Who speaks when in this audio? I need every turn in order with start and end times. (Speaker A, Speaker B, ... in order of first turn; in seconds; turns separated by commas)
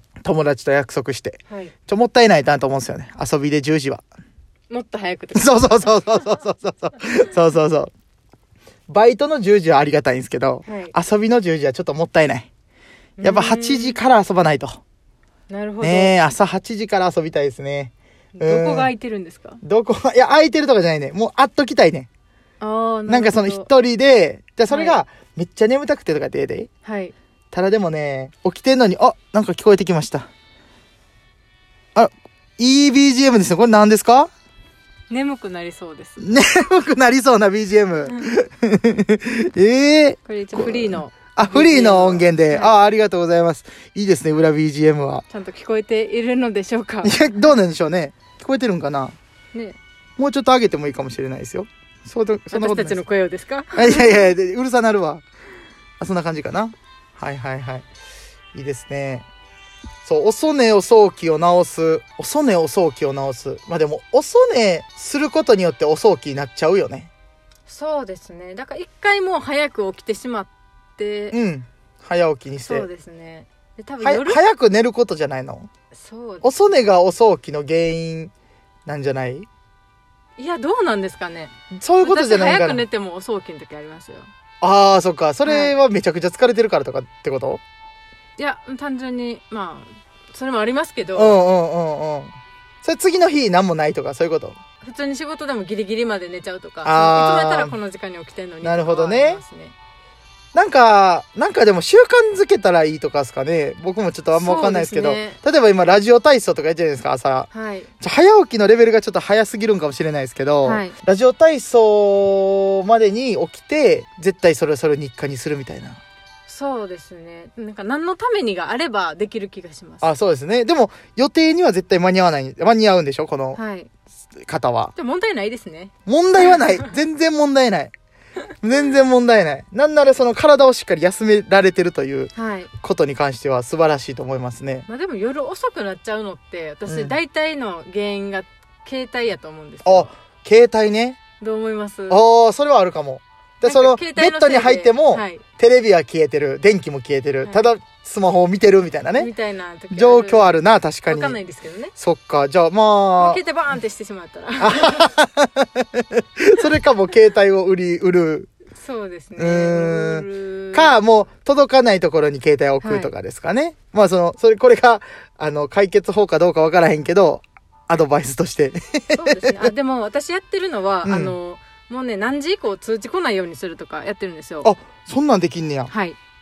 Speaker A: 0.2-4.0, Speaker B: 1.5-1.7, Speaker B: 4.7-6.0, Speaker A: 5.3-7.9, Speaker A: 8.9-12.5, Speaker B: 10.7-10.9, Speaker B: 13.2-14.0, Speaker A: 13.2-14.8, Speaker B: 15.5-16.1, Speaker A: 15.8-18.9, Speaker B: 18.4-19.6, Speaker A: 19.6-22.1, Speaker B: 22.6-23.7, Speaker A: 23.1-26.7, Speaker B: 24.7-25.0, Speaker B: 26.8-27.1, Speaker A: 27.5-30.3, Speaker A: 31.9-34.3, Speaker B: 35.1-36.2, Speaker A: 36.2-45.2, Speaker B: 40.3-42.8, Speaker B: 45.3-47.2, Speaker A: 47.0-49.2, Speaker B: 49.5-49.8, Speaker A: 50.2-53.0, Speaker B: 52.5-54.2, Speaker A: 53.7-55.2, Speaker A: 56.0-57.9, Speaker A: 58.5-59.3, Speaker A: 60.0-67.1, Speaker B: 67.7-71.4, Speaker A: 71.3-72.9, Speaker B: 72.6-74.4, Speaker A: 74.0-75.7, Speaker B: 75.9-76.5, Speaker A: 76.4-78.3, Speaker A: 78.9-79.5, Speaker B: 80.4-84.3, Speaker A: 81.7-82.8, Speaker A: 84.6-87.6, Speaker B: 85.5-85.7, Speaker B: 88.4-91.4, Speaker A: 91.1-94.6, Speaker B: 94.8-99.8, Speaker A: 96.8-97.8, Speaker A: 98.6-99.4, Speaker A: 100.5-107.5, Speaker B: 104.3-105.4, Speaker B: 107.5-107.9, Speaker A: 108.0-116.0, Speaker B: 110.6-110.9, Speaker B: 116.5-120.1, Speaker A: 120.0-123.6, Speaker B: 123.5-123.9, Speaker A: 124.5-124.9, Speaker B: 125.0-125.9, Speaker A: 126.1-127.9, Speaker A: 128.6-134.9, Speaker B: 132.3-132.7, Speaker B: 134.9-140.1, Speaker A: 136.9-137.2, Speaker A: 139.8-141.2, Speaker B: 141.4-142.2, Speaker A: 142.1-149.3, Speaker B: 143.6-145.4, Speaker B: 149.2-151.9, Speaker A: 149.9-151.4, Speaker A: 152.0-153.4, Speaker B: 153.2-155.1, Speaker A: 154.6-158.5, Speaker B: 158.8-161.0, Speaker A: 159.4-169.7, Speaker B: 162.8-163.1, Speaker B: 169.1-174.7, Speaker A: 171.0-171.3, Speaker A: 174.6-175.9, Speaker B: 175.9-176.2